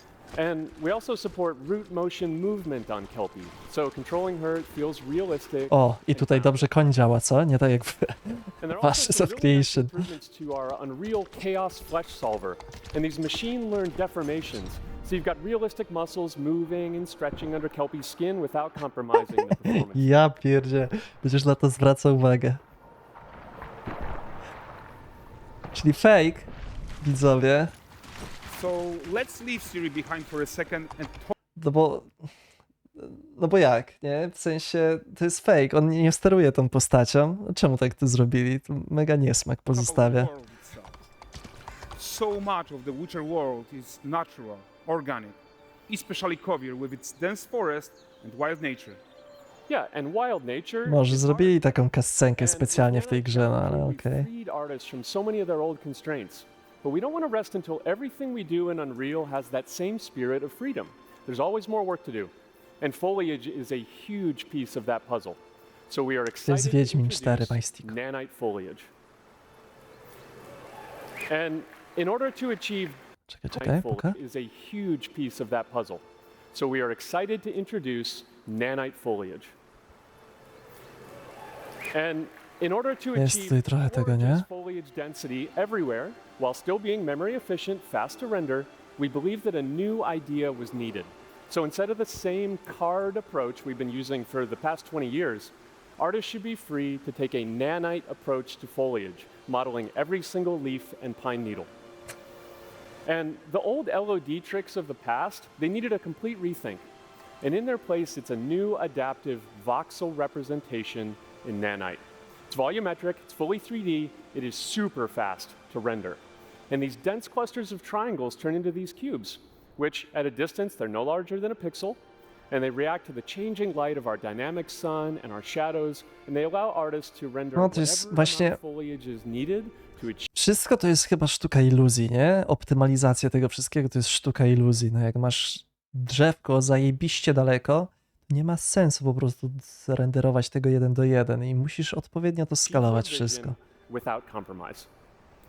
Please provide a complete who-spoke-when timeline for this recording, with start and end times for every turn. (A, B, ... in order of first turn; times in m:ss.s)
0:00.3-0:06.7 A
0:05.7-0:10.0 B
0:08.6-0:20.1 A
0:19.3-0:22.6 B
0:25.7-0:26.5 B
0:27.0-0:27.7 B
0:28.5-0:31.4 C
0:31.6-0:32.1 B
0:33.0-0:40.3 B
0:39.7-0:41.0 C
0:42.0-0:45.4 C
0:45.9-0:49.0 C
0:49.7-0:51.8 A
0:50.8-0:54.3 B
0:52.4-1:08.9 A
1:06.4-1:08.0 B
1:11.3-1:19.5 A
1:13.3-1:14.2 B
1:21.9-1:41.7 A
1:23.2-1:24.5 B
1:43.0-1:46.8 A
1:47.4-2:10.3 A
2:07.6-2:08.6 B
2:10.3-2:23.6 B
2:22.6-2:24.9 A